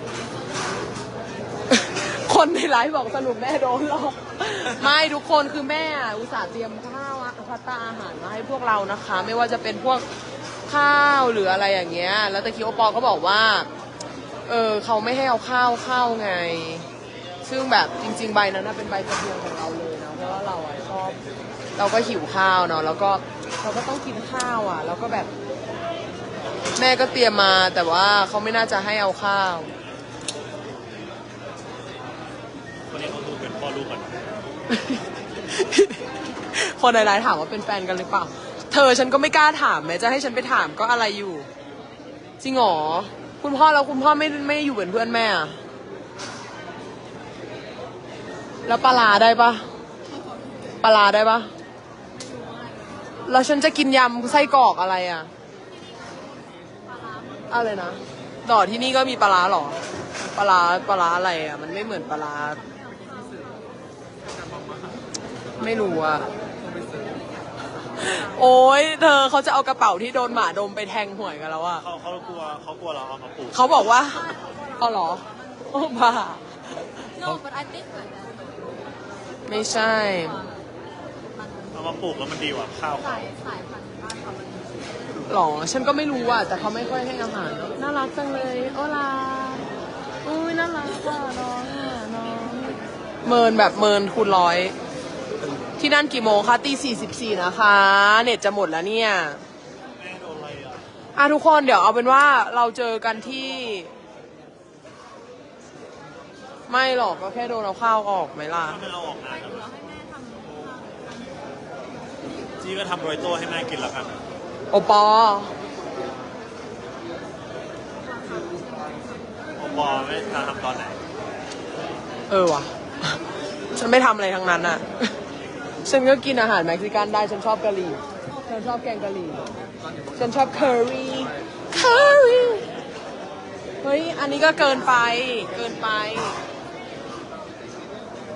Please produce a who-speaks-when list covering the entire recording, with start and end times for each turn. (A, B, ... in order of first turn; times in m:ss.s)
0:01.7-0:10.0 A
0:10.7-0:13.7 A
0:14.5-0:16.9 A
0:17.4-0:21.2 A
0:21.8-0:25.3 A
0:26.8-0:29.7 A
0:32.9-0:34.3 B
0:34.7-0:36.0 A
0:36.5-0:41.5 A
0:42.4-0:45.6 A
0:48.7-0:49.7 A
0:50.8-0:51.5 A
0:52.1-0:53.6 C
0:53.2-0:55.3 A
0:56.9-0:57.4 C
0:57.5-0:59.8 A
1:00.3-1:02.6 A
1:02.6-1:03.6 C
1:05.6-1:06.3 A
1:08.0-1:11.8 A
1:11.8-1:13.6 B
1:13.5-1:16.8 A
1:14.3-1:14.8 C
1:17.1-1:18.9 C
1:19.5-1:20.4 A
1:19.5-1:20.6 C
1:21.3-1:21.8 C
1:21.7-1:23.3 B
1:22.9-1:25.0 C
1:25.3-1:29.7 A
1:30.2-1:34.8 A
1:35.8-1:39.4 A
1:40.0-1:40.8 B
1:41.2-1:43.9 A
1:46.7-1:48.8 A
1:48.6-1:49.6 B
1:49.3-1:51.3 C
1:52.6-1:54.2 B
1:54.7-1:55.5 A
1:58.2-1:59.3 C
1:59.6-2:01.0 B
2:02.3-2:03.2 A
2:03.7-2:05.1 A
2:05.8-2:09.5 A
2:10.2-2:12.7 A
2:13.8-2:16.4 A